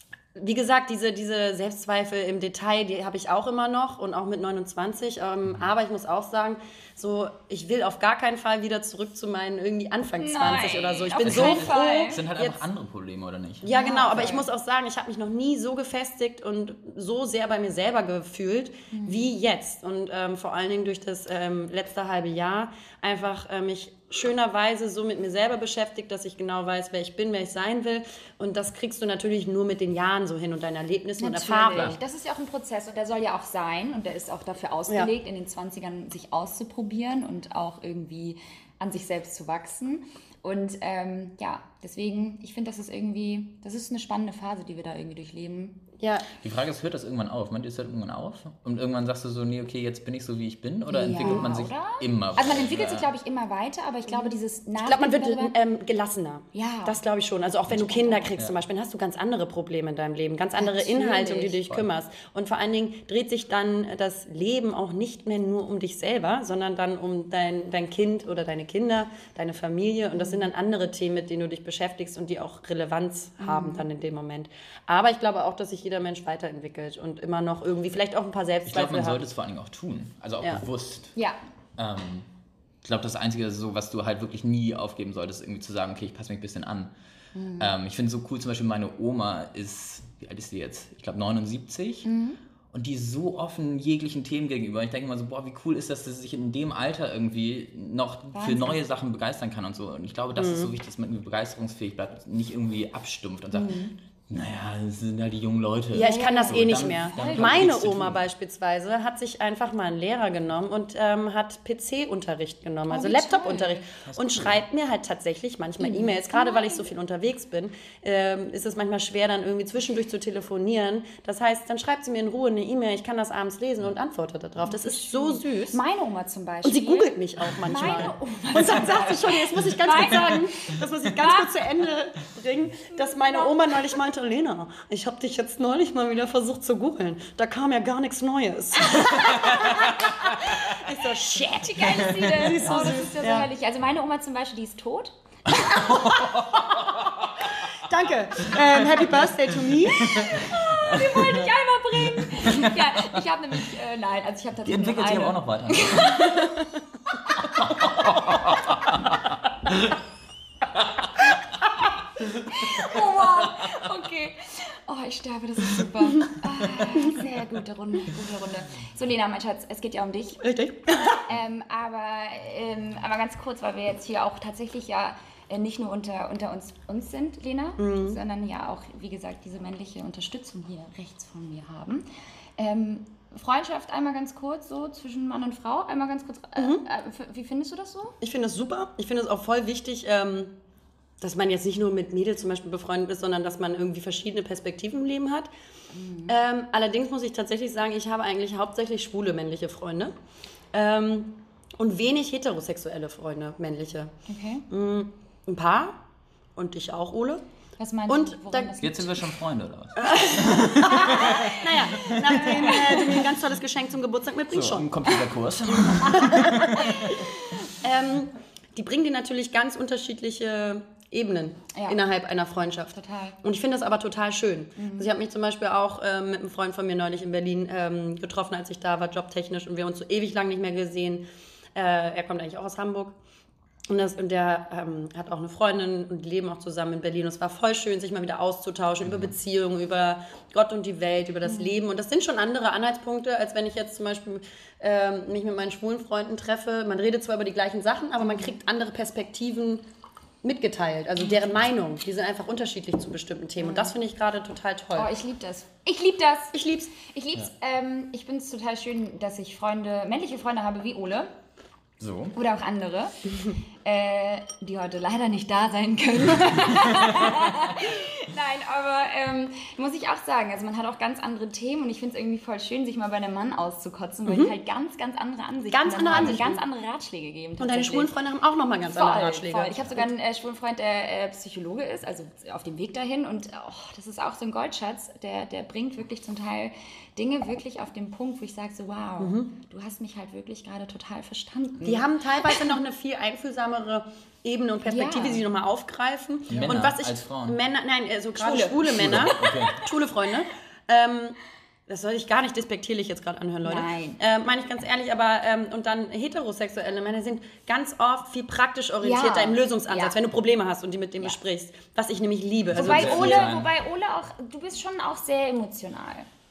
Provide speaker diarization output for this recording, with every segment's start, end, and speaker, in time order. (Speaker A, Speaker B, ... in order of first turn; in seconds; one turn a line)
Speaker A: 0.3-12.6
Speaker B: 10.2-12.2
Speaker C: 11.2-13.7
Speaker A: 13.6-32.0
Speaker B: 13.7-14.4
Speaker B: 18.9-19.3
Speaker B: 31.2-45.8
Speaker A: 46.0-46.2
Speaker C: 46.4-53.1
Speaker B: 50.9-55.5
Speaker A: 51.2-51.5
Speaker A: 54.8-79.2
Speaker B: 56.5-57.0
Speaker B: 57.7-58.4
Speaker B: 60.6-61.6
Speaker B: 70.2-70.4
Speaker B: 73.4-73.8
Speaker C: 78.7-81.1
Speaker C: 81.8-82.3
Speaker C: 82.8-86.9
Speaker B: 87.3-87.7
Speaker C: 87.6-92.1
Speaker B: 92.0-92.4
Speaker C: 92.7-108.2
Speaker B: 98.3-98.8
Speaker A: 100.4-100.7
Speaker B: 103.5-103.9
Speaker A: 105.9-125.8
Speaker B: 106.0-107.5
Speaker B: 112.9-113.8
Speaker C: 114.0-114.6
Speaker B: 115.8-116.9
Speaker B: 124.6-131.5
Speaker A: 126.6-143.5
Speaker B: 132.9-133.6
Speaker B: 138.9-140.6
Speaker B: 141.5-146.6
Speaker C: 145.6-147.3
Speaker A: 147.7-150.3
Speaker C: 148.4-151.4
Speaker B: 149.9-158.4
Speaker C: 152.2-153.2
Speaker C: 154.6-156.4
Speaker C: 157.6-159.9
Speaker B: 162.4-170.4
Speaker A: 170.4-171.2
Speaker B: 171.2-182.1
Speaker A: 177.8-178.2
Speaker B: 182.6-188.2
Speaker A: 186.6-186.8
Speaker A: 188.2-190.5
Speaker A: 191.2-195.5
Speaker B: 195.9-196.3
Speaker A: 196.3-200.1
Speaker A: 200.7-204.1
Speaker B: 204.3-204.6
Speaker A: 204.7-206.0
Speaker A: 206.6-207.4
Speaker B: 207.8-209.2
Speaker A: 208.1-208.7
Speaker C: 208.8-212.8
Speaker A: 210.0-215.0
Speaker B: 210.9-213.2
Speaker C: 214.5-217.2
Speaker A: 216.1-216.9
Speaker B: 216.8-217.6
Speaker A: 217.8-233.1
Speaker B: 222.9-223.4
Speaker B: 224.8-225.1
Speaker A: 233.9-249.8
Speaker B: 241.4-241.8
Speaker B: 248.2-248.6
Speaker A: 250.4-255.1
Speaker B: 253.6-253.9
Speaker B: 254.9-261.3
Speaker A: 256.5-256.9
Speaker C: 262.0-262.3
Speaker B: 262.3-263.3
Speaker B: 263.8-278.1
Speaker A: 274.2-274.5
Speaker A: 275.7-276.6
Speaker C: 276.1-276.4
Speaker A: 277.6-280.1
Speaker B: 278.8-292.6
Speaker A: 289.2-289.5
Speaker A: 291.8-313.5
Speaker B: 294.8-295.4
Speaker C: 296.5-297.6
Speaker B: 298.4-299.7
Speaker C: 299.0-299.8
Speaker B: 303.6-304.2
Speaker B: 309.0-310.1
Speaker B: 312.7-316.3
Speaker C: 312.7-313.7